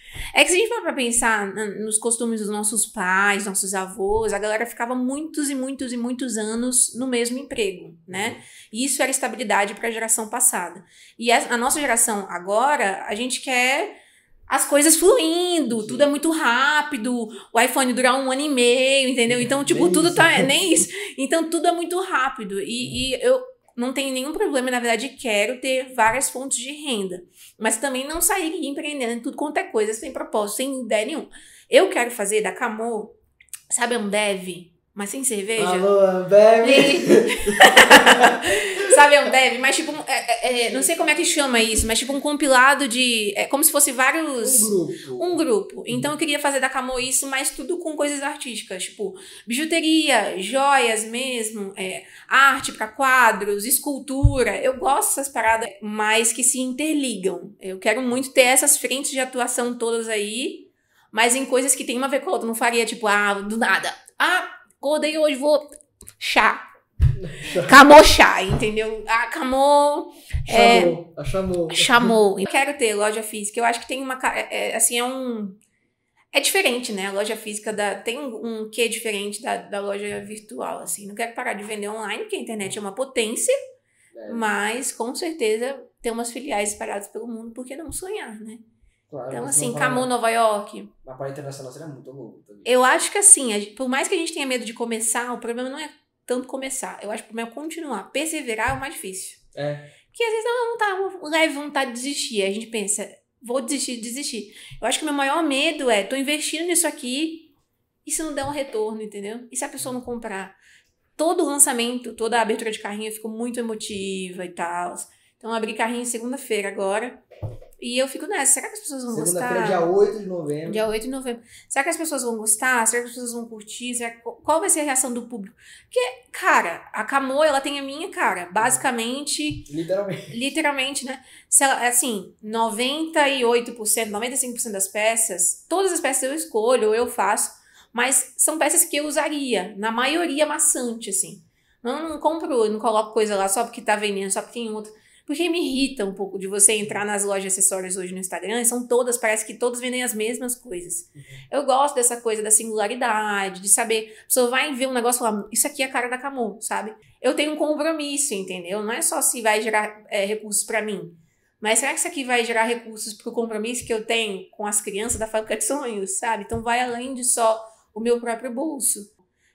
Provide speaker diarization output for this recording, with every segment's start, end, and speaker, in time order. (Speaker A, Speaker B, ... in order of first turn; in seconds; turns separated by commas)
Speaker A: 0.3-14.0, Speaker B: 8.1-8.4, Speaker A: 14.5-33.1, Speaker B: 15.7-16.1, Speaker B: 19.3-20.5, Speaker A: 33.7-35.9, Speaker B: 35.5-38.6, Speaker A: 36.6-66.6, Speaker B: 44.4-46.1, Speaker B: 67.2-67.8, Speaker A: 67.5-71.0, Speaker B: 70.5-72.1, Speaker A: 71.7-75.6, Speaker A: 76.3-83.5, Speaker B: 84.1-84.5, Speaker A: 84.3-88.6, Speaker B: 89.1-90.1, Speaker A: 89.3-90.9, Speaker B: 91.0-92.7, Speaker A: 92.6-99.4, Speaker B: 99.5-99.9, Speaker A: 100.1-107.5, Speaker A: 108.0-110.6, Speaker A: 111.2-117.2, Speaker A: 117.8-119.8, Speaker B: 119.1-120.8, Speaker A: 120.7-129.7, Speaker B: 129.7-130.3, Speaker A: 130.3-169.1, Speaker B: 151.1-151.4